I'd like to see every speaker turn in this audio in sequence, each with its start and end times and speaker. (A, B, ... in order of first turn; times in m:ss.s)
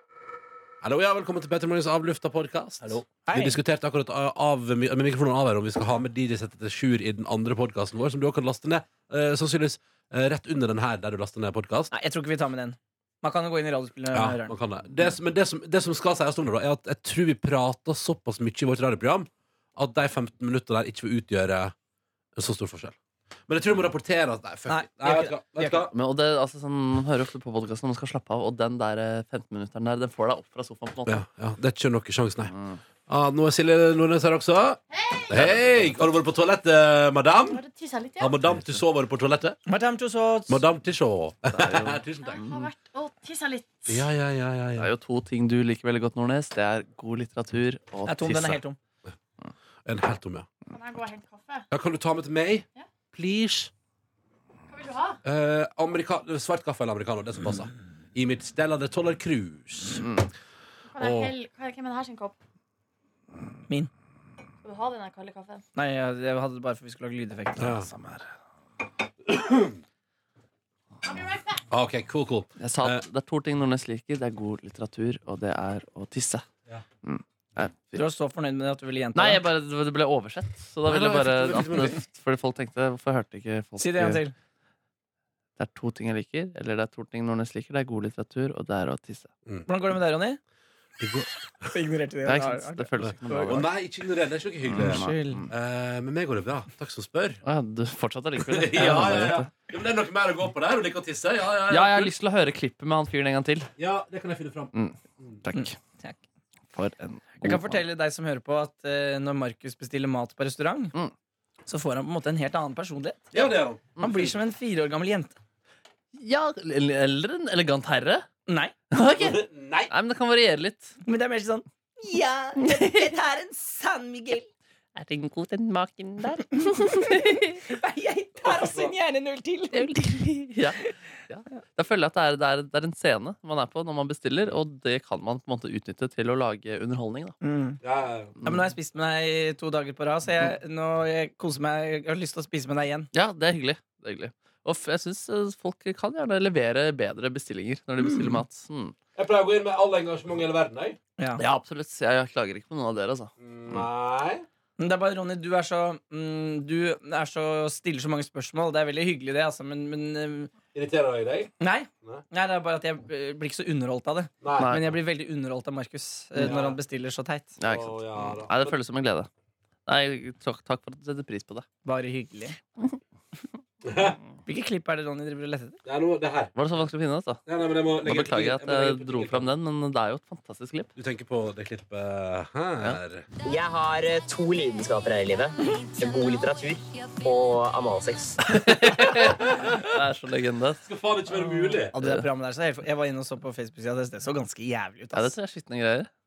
0:00.8-0:11.9 A
0:03.2-0:03.6 B
0:11.9-0:14.5 B
0:14.1-0:21.7 A
0:22.4-0:23.0 A
0:23.5-0:25.9 A
0:24.7-0:25.9 B
0:25.9-0:31.2 C
0:31.1-0:32.6 A
0:32.5-0:32.8 C
0:33.1-0:37.6 A
0:34.9-0:35.5 D
0:37.5-0:38.4 D
0:38.2-0:39.6 A
0:39.7-0:40.6 B
0:40.5-0:42.4 A
0:41.5-0:42.7 C
0:42.2-0:44.0 D
0:43.9-0:44.9 A
0:44.8-0:48.6 C
0:48.1-0:48.8 B
0:49.8-0:50.5 A
0:50.7-0:51.7 D
0:51.7-0:53.7 A
0:54.7-0:55.2 D
0:55.2-1:00.1 A
1:00.0-1:00.3 C
1:00.9-1:02.4 D
1:01.0-1:01.3 A
1:04.6-1:05.6 D
1:05.8-1:08.2 B
1:07.6-1:07.9 A
1:09.2-1:09.8 A
1:11.0-1:11.6 D
1:11.7-1:13.0 A
1:12.6-1:16.4 C
1:17.0-1:18.0 C
1:18.0-1:19.4 B
1:19.1-1:24.2 C
1:20.8-1:22.0 A
1:23.8-1:24.3 B
1:25.6-1:29.3 C
1:29.7-1:30.4 B
1:31.7-1:33.7 B
1:32.2-1:33.7 C
1:33.0-1:37.4 A
1:34.7-1:35.5 C
1:34.8-1:35.4 B
1:37.4-1:39.5 C
1:38.4-1:42.1 A
1:38.8-1:39.3 B
1:41.7-1:43.7 C
1:43.8-1:45.4 A
1:44.7-1:45.8 C
1:45.5-1:46.2 B
1:46.7-1:47.8 C
1:47.4-1:50.9 B
1:51.7-1:53.5 B
1:53.3-1:53.9 A
1:54.0-1:55.4 B
1:56.2-1:58.3 C
1:58.5-1:58.8 B
1:58.9-2:01.0 C
1:59.2-1:59.9 A
2:01.1-2:04.5 B
2:02.6-2:03.1 C
2:05.0-2:07.6 C
2:06.6-2:10.3 B
2:09.7-2:17.4 C
2:17.4-2:17.8 B
2:17.8-2:18.3 A
2:18.4-2:23.1 B
2:23.1-2:29.0 C
2:28.0-2:28.4 B
2:29.2-2:31.0 A
2:31.4-2:33.9 C
2:33.4-2:34.4 A
2:34.8-2:40.5 B
2:40.7-2:42.2 A
2:41.6-2:47.6 B
2:44.4-2:44.8 A
2:44.6-2:45.0 C
2:46.4-2:46.8 A
2:47.6-2:49.3 C
2:47.7-2:48.8 A
2:49.9-2:51.7 C
2:51.8-2:52.6 B
2:53.8-2:54.2 A
2:54.5-2:55.8 B
2:55.9-2:56.5 A
2:56.6-2:57.4 C
2:57.5-2:59.5 A
2:58.0-3:00.9 C
3:01.0-3:03.3 A
3:03.4-3:08.7 E
3:08.5-3:10.8 C
3:09.2-3:09.9 A
3:10.8-3:12.0 A
3:11.4-3:12.3 C
3:11.9-3:15.3 B
3:15.1-3:16.1 C